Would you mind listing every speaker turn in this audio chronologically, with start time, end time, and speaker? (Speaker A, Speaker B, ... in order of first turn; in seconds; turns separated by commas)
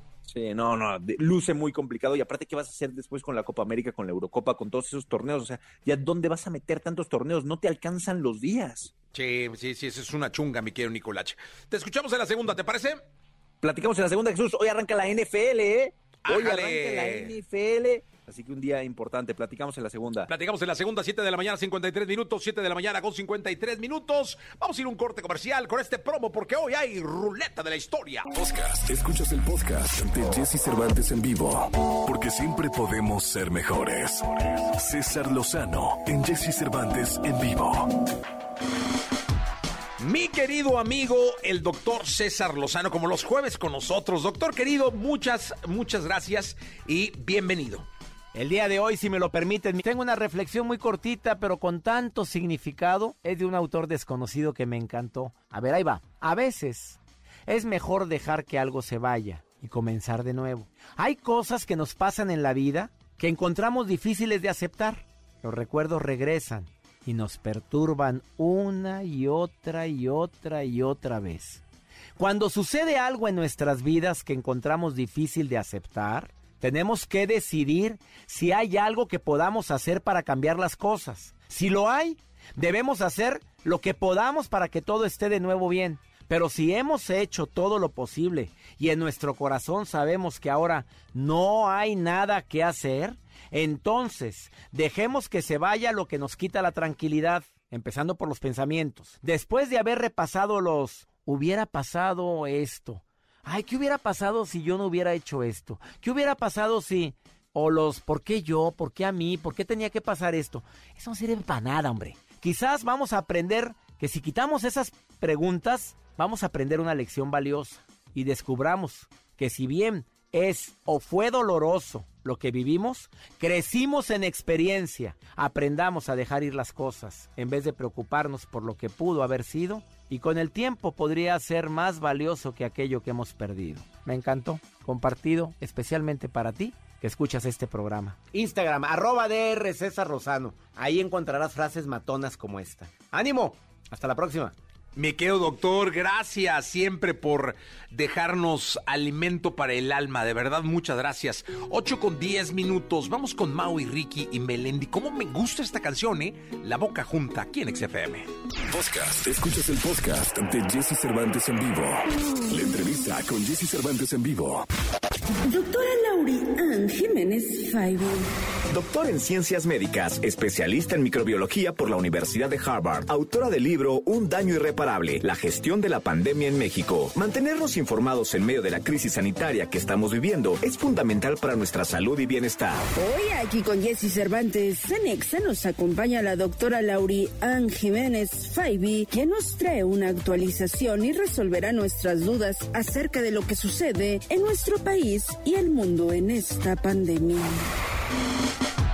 Speaker A: 0.2-8.9, Speaker B: 9.1-13.0, Speaker A: 13.6-20.3, Speaker B: 16.2-17.3, Speaker B: 20.3-28.3, Speaker C: 28.3-37.9, Speaker B: 40.0-47.9, Speaker D: 48.3-71.6, Speaker D: 72.2-144.5, Speaker B: 144.9-158.3, Speaker C: 158.7-164.7, Speaker E: 165.5-168.3, Speaker F: 168.7-182.8, Speaker E: 182.9-197.6